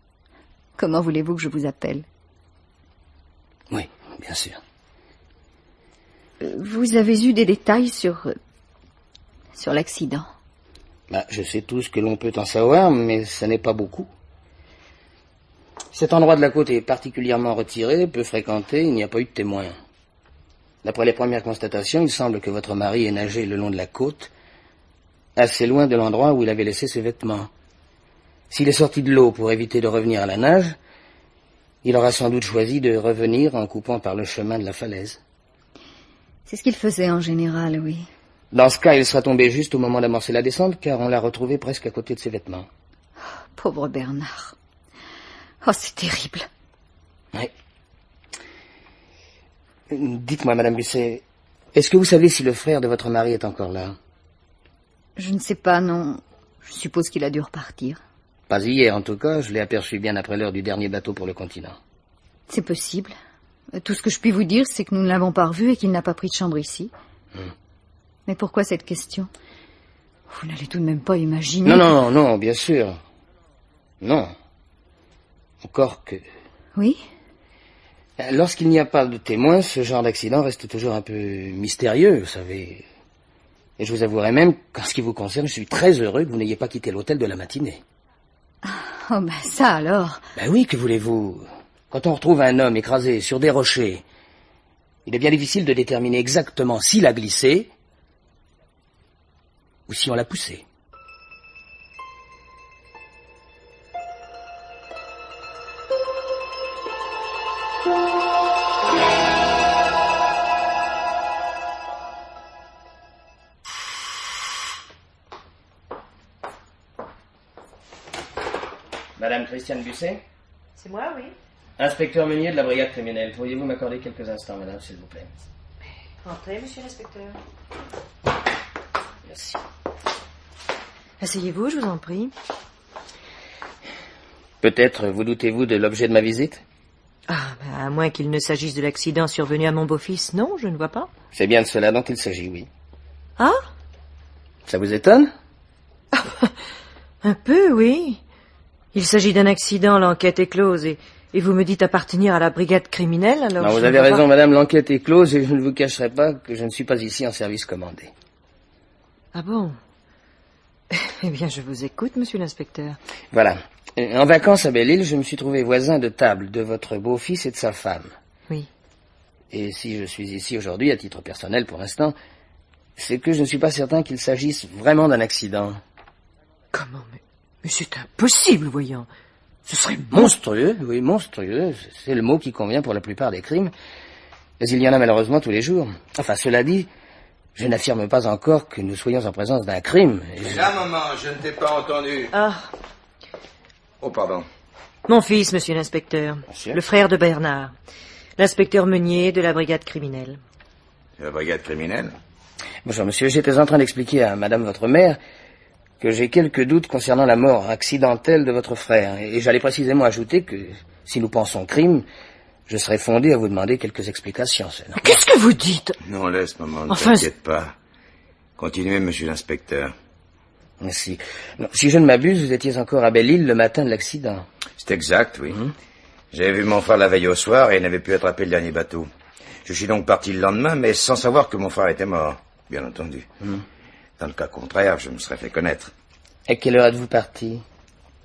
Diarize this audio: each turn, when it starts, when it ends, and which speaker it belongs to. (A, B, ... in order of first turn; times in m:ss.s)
0:00.8-0:02.0 A
0:03.7-0:04.6 B
0:06.4-0:08.4 A
0:09.5-0:10.3 A
0:11.1-0:14.1 B
0:15.9-0:19.8 B
0:20.8-0:24.3 B
0:25.4-0:27.5 B
0:28.5-0:30.8 B
0:31.8-0:35.2 B
0:36.5-0:38.1 A
0:38.5-0:42.7 B
0:43.6-0:44.5 A
0:45.6-0:46.5 A
0:49.9-0:51.2 B
0:51.7-0:54.0 B
0:55.2-0:58.0 A
0:58.5-1:01.8 B
1:02.5-1:03.1 A
1:03.8-1:06.9 A
1:08.2-1:09.3 A
1:10.3-1:11.9 A
1:11.6-1:13.0 B
1:14.0-1:14.3 B
1:15.6-1:16.2 B
1:16.8-1:17.0 A
1:18.2-1:22.8 B
1:23.8-1:27.8 B
1:28.6-1:30.2 A
1:30.4-1:34.0 B
1:35.0-1:37.7 B
1:39.9-1:40.6 B
1:59.2-2:00.2 B
2:00.8-2:01.3 C
2:01.8-2:05.3 B
2:06.2-2:07.4 C
2:09.2-2:09.6 B
2:11.2-2:12.3 C
2:14.6-2:16.6 B
2:17.3-2:21.1 C
2:21.3-2:22.7 B
2:23.4-2:23.6 C
2:24.7-2:25.3 B
2:26.2-2:26.5 C
2:27.2-2:28.2 C
2:28.9-2:34.2 C
2:33.6-2:38.1 B
2:39.3-2:39.8 C
2:40.9-2:43.0 C
2:43.3-2:48.1 B
2:49.5-2:52.2 B
2:53.0-2:55.8 B
2:56.7-2:59.1 C
2:59.6-3:00.3 C
3:00.1-3:03.7 B
3:04.6-3:06.9 B
3:07.5-3:10.7 B
3:10.4-3:12.3 D
3:12.3-3:12.7 C
3:14.0-3:14.5 D
3:15.1-3:17.7 C
3:16.5-3:16.8 B
3:18.4-3:20.4 C
3:21.2-3:22.2 D
3:22.8-3:25.2 B
3:26.0-3:32.0 B
3:32.7-3:35.0 B
3:35.0-3:36.0 C
3:36.0-3:37.8 D
3:36.9-3:37.3 C
3:38.6-3:39.9 D
3:40.8-3:44.4 B
3:44.8-3:45.6 D
3:46.3-3:49.1 D
3:49.6-3:53.3 D
3:54.2-3:55.9 D
3:56.5-3:57.6 B